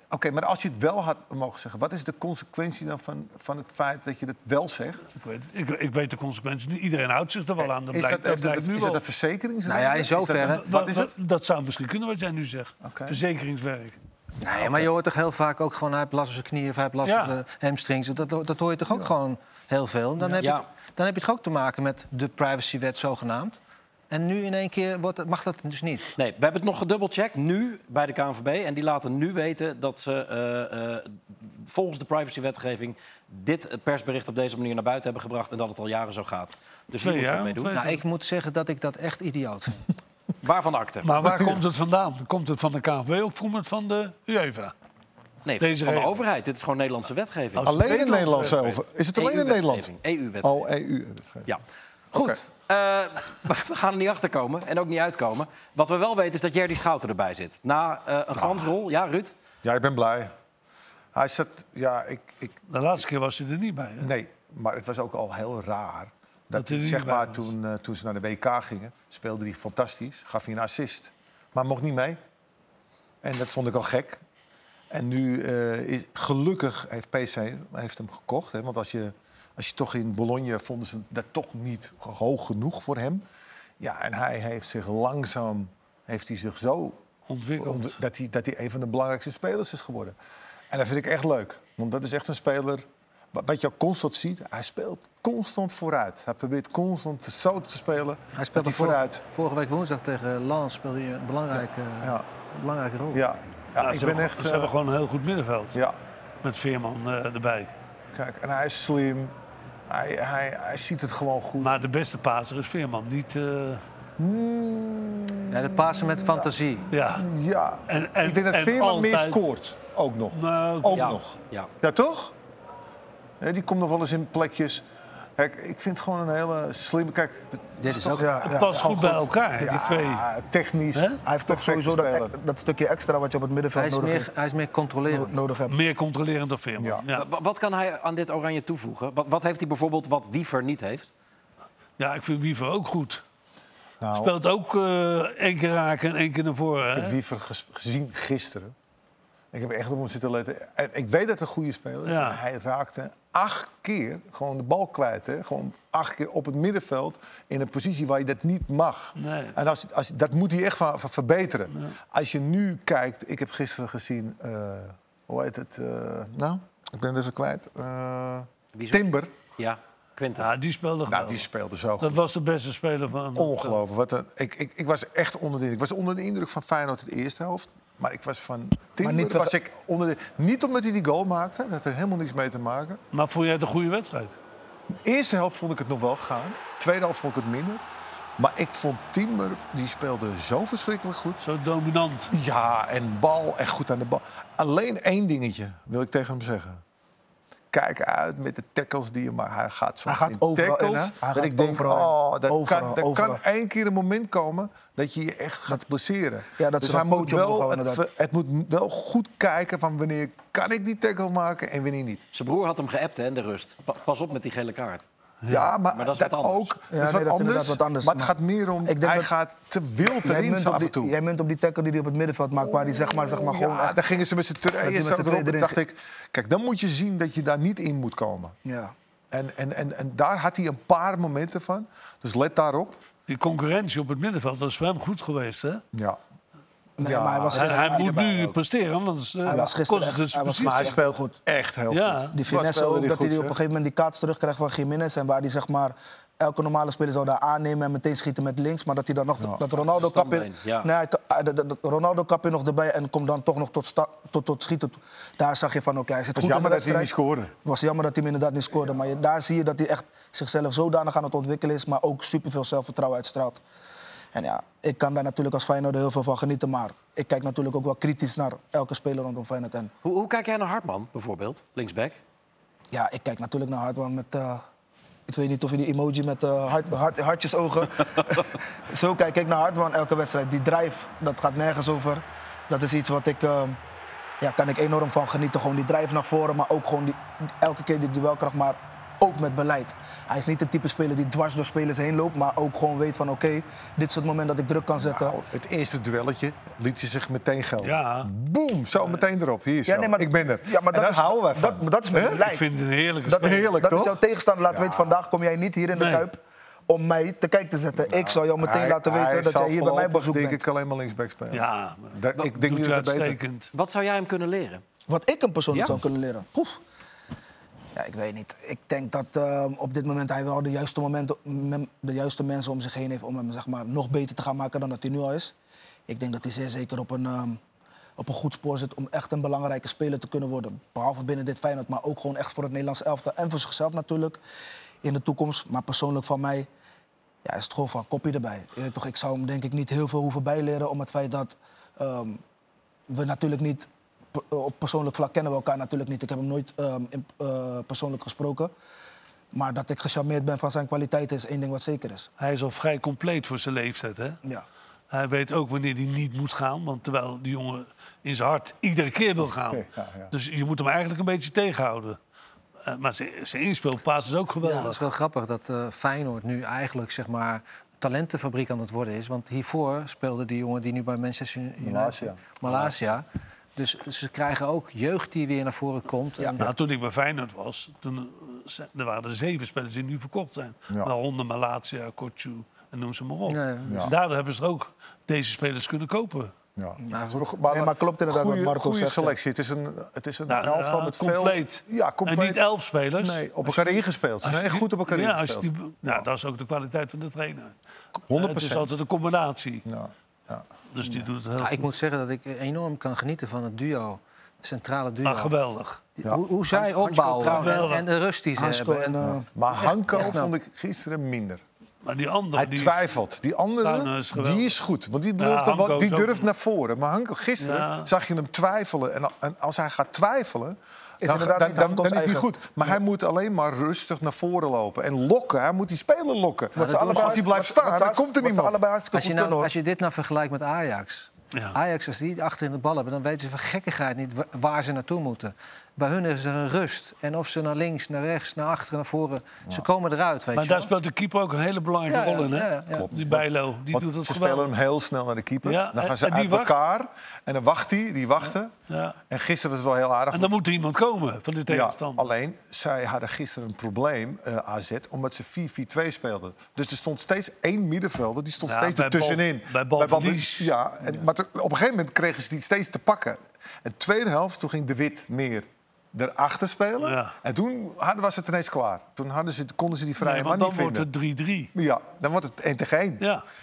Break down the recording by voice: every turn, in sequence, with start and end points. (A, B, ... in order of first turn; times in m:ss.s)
0:00.1-0:05.0 A
0:05.2-0:09.0 B
0:07.6-0:11.1 A
0:09.6-0:10.6 C
0:10.4-0:14.0 B
0:12.8-0:13.2 A
0:14.4-0:23.6 C
0:14.5-0:14.9 A
0:17.0-0:17.4 B
0:20.4-0:20.6 D
0:24.1-0:26.1 C
0:26.2-0:37.8 D
0:36.9-0:38.0 B
0:37.7-0:39.8 C
0:40.4-0:41.1 D
0:41.0-0:44.7 B
0:41.2-0:41.6 A
0:45.4-0:47.8 D
0:45.6-0:46.2 B
0:47.6-0:49.9 A
0:48.0-0:48.5 B
0:48.6-0:50.7 D
0:50.4-0:51.5 A
0:51.4-0:59.3 D
0:52.1-0:52.4 A
0:58.3-0:58.7 A
0:59.6-1:00.3 A
1:01.1-1:02.6 A
1:02.7-1:04.1 B
1:04.0-1:12.2 A
1:06.5-1:07.5 B
1:13.2-1:14.2 A
1:14.9-1:23.2 A
1:23.8-1:27.0 A
1:27.3-1:28.0 B
1:27.6-1:30.2 A
1:30.7-1:39.2 A
1:38.3-1:43.2 C
1:41.5-1:42.2 A
1:43.1-1:44.7 A
1:43.8-1:45.8 B
1:46.4-1:47.7 B
1:48.1-1:49.3 A
1:49.9-1:51.8 A
1:51.6-1:53.8 B
1:54.2-1:56.5 A
1:55.5-1:56.9 C
1:56.9-1:57.3 B
1:57.0-2:02.3 A
1:57.9-1:59.5 B
2:00.3-2:01.2 B
2:00.9-2:01.7 D
2:03.4-2:04.8 A
2:05.4-2:12.3 A
2:07.8-2:08.3 C
2:08.2-2:09.9 E
2:08.5-2:10.2 B
2:10.9-2:11.2 B
2:11.2-2:14.3 E
2:13.7-2:15.4 C
2:15.1-2:15.8 E
2:15.7-2:17.3 B
2:16.8-2:17.0 A
2:17.1-2:21.1 D
2:22.0-2:23.2 B
2:24.0-2:24.3 A
2:24.1-2:27.1 B
2:26.9-2:28.7 A
2:29.5-2:49.3 A
2:32.0-2:32.4 B
2:39.2-2:39.6 B
2:48.7-2:49.0 D
2:49.6-2:50.5 D
2:50.4-2:51.5 B
2:51.1-2:52.2 A
2:52.0-2:53.8 B
2:53.3-3:03.0 A
2:59.0-2:59.5 E
3:03.1-3:04.3 B
3:04.9-3:07.8 A
3:08.4-3:11.4 A
3:11.4-3:12.3 B
3:12.3-3:16.8 A
3:17.7-3:32.2 A
3:20.0-3:23.4 E
3:26.6-3:28.0 E
3:32.3-3:35.0 D
3:35.4-3:35.7 B
3:35.5-3:41.1 A
3:35.9-3:36.7 D
3:36.9-3:38.3 E
3:38.8-3:39.3 E
3:40.1-3:44.0 E
3:43.2-3:48.6 A
3:44.8-3:45.8 E
3:48.6-3:48.9 E
3:49.3-3:53.0 A
3:53.3-3:55.8 B
3:55.9-3:56.2 A
3:57.0-3:58.0 A
3:57.0-3:58.2 E
3:57.5-4:01.0 B
3:59.4-4:01.3 E
4:00.6-4:03.6 A
4:01.9-4:02.3 B
4:02.3-4:17.1 E
4:09.7-4:10.9 D
4:16.3-4:17.5 A
4:17.6-4:23.6 E
4:24.3-4:29.9 E
4:30.0-4:32.2 D
4:32.9-4:34.6 E
4:35.3-4:43.8 E
4:44.4-4:55.4 E
4:55.0-5:02.5 A
4:57.8-4:58.3 B
4:59.9-5:02.6 E
5:02.4-5:03.6 B
5:03.2-5:10.6 E
5:03.4-5:05.1 A
5:05.9-5:06.3 B
5:08.6-5:13.4 A
5:11.5-5:13.7 B
5:13.7-5:14.8 D
5:15.1-5:16.8 E
5:17.9-5:25.5 E
5:26.1-5:27.6 E
5:28.2-5:34.4 E
5:35.0-5:36.7 E
5:37.4-5:42.4 E
5:43.1-5:48.7 E
5:49.5-5:52.3 E
5:52.4-5:54.4 B
5:55.1-6:02.2 B
5:59.4-6:00.3 A
6:02.8-6:05.0 B
6:04.6-6:13.2 C
6:11.8-6:12.4 A
6:13.8-6:16.6 C
6:16.6-6:26.5 B
6:23.5-6:24.1 C
6:23.8-6:24.1 A
6:26.8-6:32.6 A
6:27.0-6:29.4 E
6:30.5-6:37.7 B
6:33.2-6:36.2 A
6:38.3-6:38.9 A
6:38.3-6:39.8 B
6:39.8-6:40.6 A
6:40.9-6:41.8 B
6:41.6-6:45.5 C
6:45.2-6:46.0 B
6:46.2-6:49.2 C
6:46.7-6:47.9 D
6:47.4-6:48.0 B
6:48.6-6:49.5 E
6:49.5-6:51.6 A
6:49.8-6:50.5 C
6:52.0-6:53.1 B
6:52.5-7:08.8 A
6:53.8-6:54.7 B
6:55.4-6:56.5 B
6:57.6-6:58.1 B
7:01.2-7:03.0 E
7:06.8-7:09.7 E
7:06.8-7:07.4 C
7:09.1-7:20.9 C
7:20.5-7:24.7 B
7:22.1-7:23.0 C
7:22.9-7:28.7 A
7:25.6-7:26.8 B
7:28.9-7:29.2 B
7:29.3-7:30.5 A
7:30.3-7:32.2 B
7:31.7-7:51.1 A
7:38.6-7:40.7 B
7:47.0-7:47.3 B
7:50.2-7:51.7 B
7:51.7-7:53.2 A